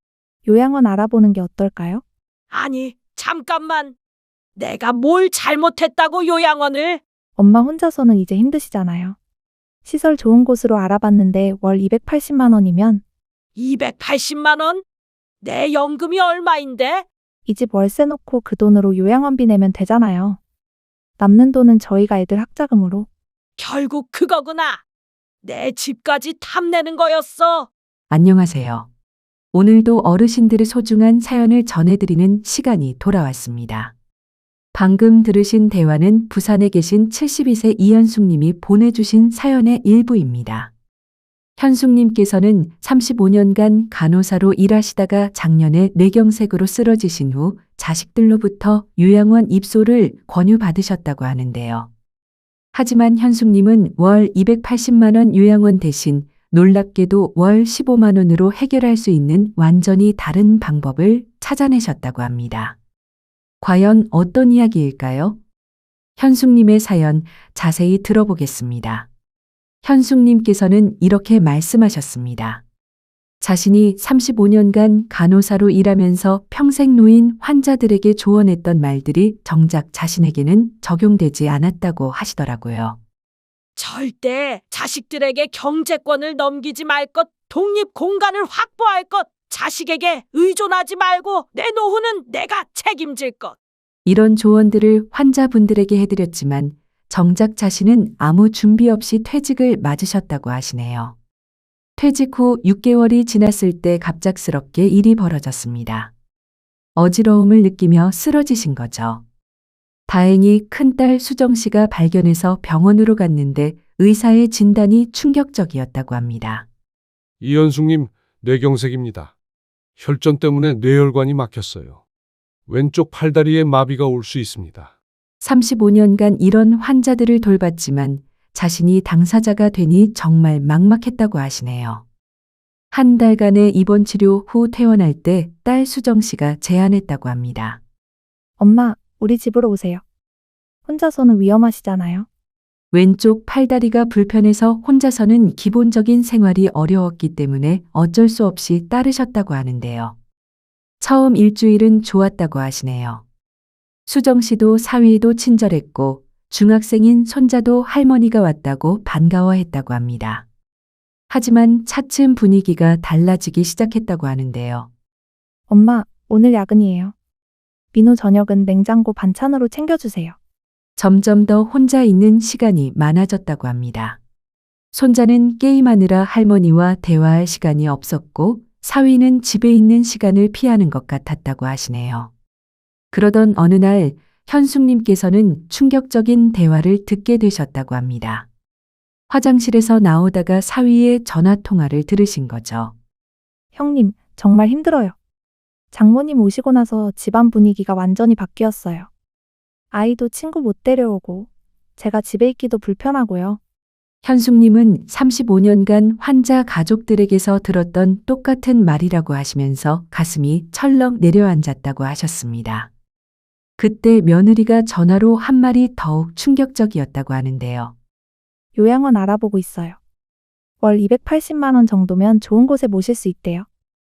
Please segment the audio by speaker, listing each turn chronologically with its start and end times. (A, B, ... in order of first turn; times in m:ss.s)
0:00.4-0:02.0 A
0:02.5-0:04.0 B
0:04.6-0:07.0 B
0:07.4-0:09.2 A
0:09.8-0:13.0 A
0:13.6-0:14.8 B
0:15.4-0:17.1 B
0:17.5-0:20.4 A
0:21.2-0:23.1 A
0:23.6-0:24.8 B
0:25.4-0:27.7 B
0:28.1-0:28.9 C
0:29.5-0:33.9 C
0:34.7-0:40.7 C
0:41.6-0:51.9 C
0:52.7-1:02.8 C
1:03.6-1:05.4 C
1:06.2-1:09.1 C
1:09.8-1:12.6 C
1:13.4-1:23.0 C
1:23.8-1:33.6 B
1:34.0-1:41.2 C
1:42.0-1:46.1 C
1:47.0-1:49.2 C
1:50.1-1:56.7 C
1:57.4-1:59.3 D
2:00.0-2:02.0 D
2:02.7-2:04.9 D
2:05.4-2:12.0 C
2:12.9-2:17.8 C
2:18.6-2:20.0 A
2:20.9-2:22.3 A
2:22.9-2:30.2 C
2:31.0-2:33.2 C
2:34.1-2:40.4 C
2:41.3-2:44.9 C
2:45.7-2:47.1 A
2:47.9-2:50.4 A
2:51.0-2:54.2 C
2:54.9-3:02.3 C
3:03.1-3:08.5 C
3:09.3-3:12.9 C
3:13.7-3:15.2 A
3:15.9-3:19.1 A
3:19.9-3:23.6 A
3:24.2-3:32.9 C
3:33.8-3:37.9 C
3:38.8-3:40.0 A
3:40.8-3:43.7 A